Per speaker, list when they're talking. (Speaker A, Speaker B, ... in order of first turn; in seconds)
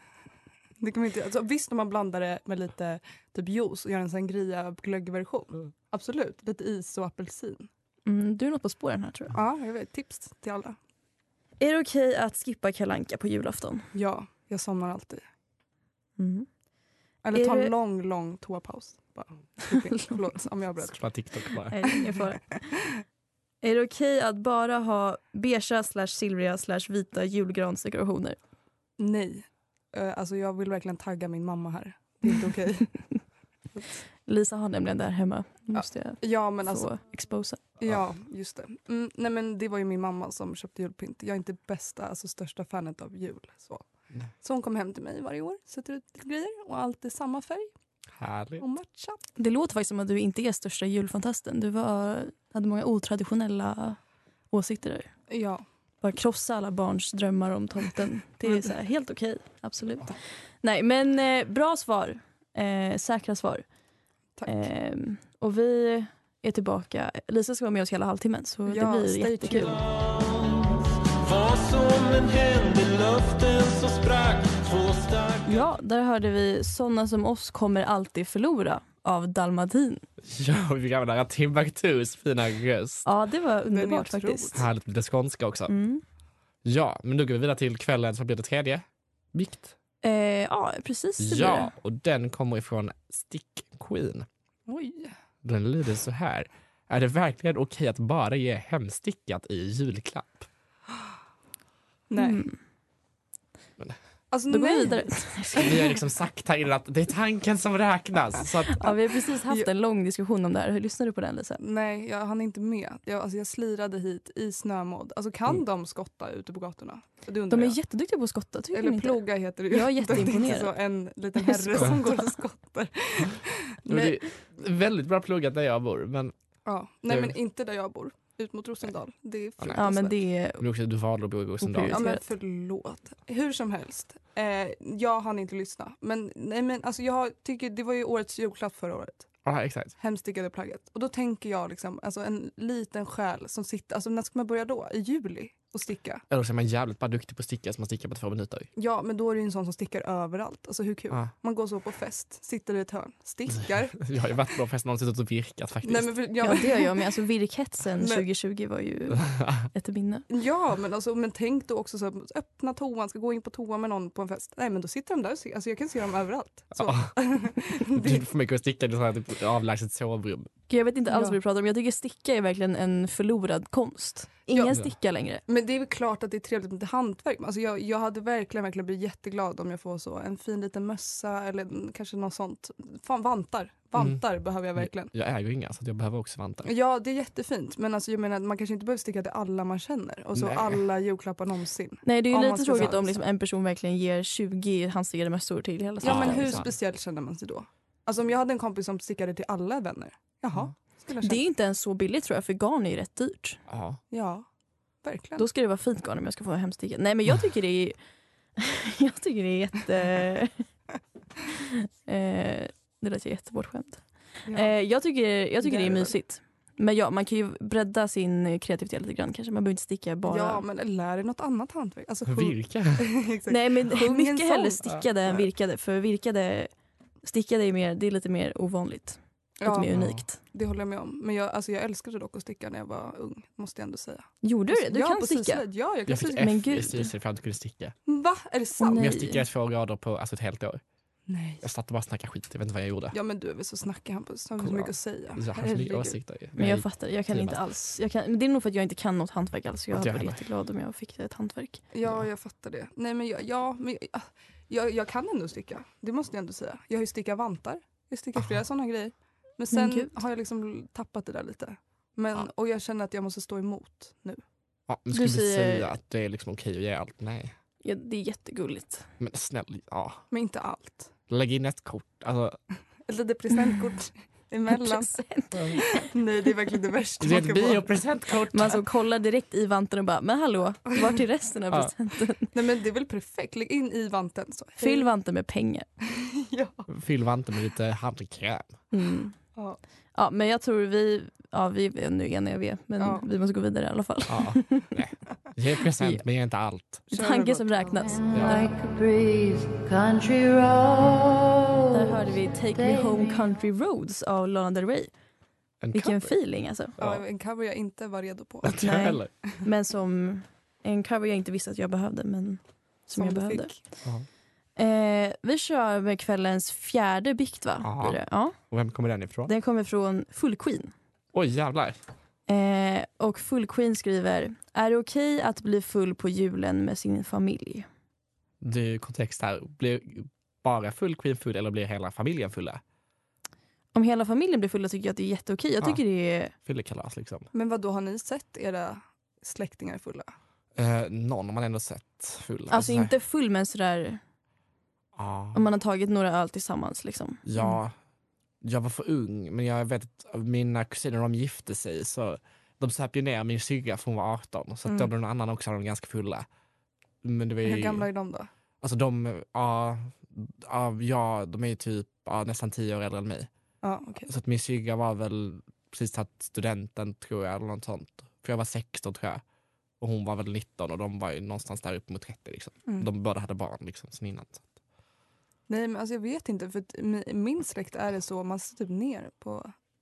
Speaker A: 0.8-7.7, 9.3-10.8, 13.9-15.2, 17.2-21.0, 29.0-32.9, 35.8-36.9, 37.8-43.9, 44.4-47.7, 48.6-49.2, 55.3-55.6, 64.4-64.6, 68.7-69.8, 83.7-84.7, 94.7-95.2, 102.1-102.4, 104.3-105.8, 111.6-117.8, 118.7-124.1, 126.7-130.2, 131.9-139.3, 140.0-146.2, 148.8-154.0, 155.8-156.9, 158.0-158.2, 160.3-168.2, 171.1-171.4, 174.5-174.8, 175.5-185.1, 186.7-193.2, 196.0-201.4, 204.1-204.5, 205.0-205.4, 215.6-216.1, 220.3-224.8, 229.6-236.6, 238.1-239.1, 241.3-241.6, 243.1-246.2, 251.9-264.4, 270.3-271.1, 273.1-275.2, 275.9-277.9, 282.5-285.1, 286.0-286.9, 293.0-293.3, 297.1-298.0, 307.0-308.9, 313.1-313.8, 337.5-340.3, 357.6-358.5, 363.8-364.3, 375.7-379.7
Speaker B: 8.1-9.3, 11.6-13.9, 16.2-16.5, 17.3-17.7, 21.7-22.6, 23.6-28.4, 34.3-37.6, 49.4-54.0, 54.5-55.1, 56.0-63.6, 64.5-69.8, 75.4-80.0, 83.0-84.7, 85.7-86.0, 90.0-91.7, 102.2-102.6, 104.5-105.9, 108.7-111.6, 117.5-120.7, 121.4-122.3, 129.8-130.6, 131.6-132.2, 156.4-160.3, 170.7-175.4, 192.1-196.7, 201.2-203.6, 205.4-208.0, 208.6-210.6, 211.6-220.6, 223.5-226.7, 227.2-230.4, 234.4-235.6, 236.3-237.1, 238.8-239.4, 246.6-251.8, 259.7-260.1, 265.1-265.9, 267.8-269.1, 274.7-276.1, 278.5-282.5, 284.8-285.9, 288.9-289.4, 290.1-294.9, 297.1-298.7, 301.9-305.1, 305.9-306.9, 308.7-313.7, 314.8-318.6, 319.5-320.9, 322.5-327.9, 333.9-336.5, 342.7-344.2, 345.5-347.4
Speaker C: 20.8-21.9, 48.1-48.6, 80.2-83.0, 84.5-85.7, 86.6-89.7, 91.2-94.3, 95.4-100.5, 105.6-108.9, 123.9-126.3, 127.1-127.3, 130.6-132.0, 139.4-139.9, 146.3-148.7, 153.6-156.1, 159.2-159.7, 166.8-167.1, 167.7-170.5, 184.8-186.7, 190.4-190.8, 196.0-196.7, 203.7-204.0, 222.3-223.1, 229.9-230.2, 236.1-237.9, 238.9-240.8, 241.6-243.2, 244.6-247.6, 249.9-250.4, 264.9-267.5, 269.2-270.2, 271.3-272.6, 277.2-278.8, 286.9-288.7, 294.3-297.0, 305.8-306.4, 307.0-307.2, 308.6-309.3, 317.8-319.5, 321.3-322.0, 328.6-332.8, 336.6-337.5, 340.8-343.1, 345.2-345.6, 347.5-347.9, 348.6-356.5, 357.2-358.1, 358.8-363.5, 364.3-369.4, 370.0-374.6
Speaker D: 71.3-75.3
Speaker E: 298.1-303.4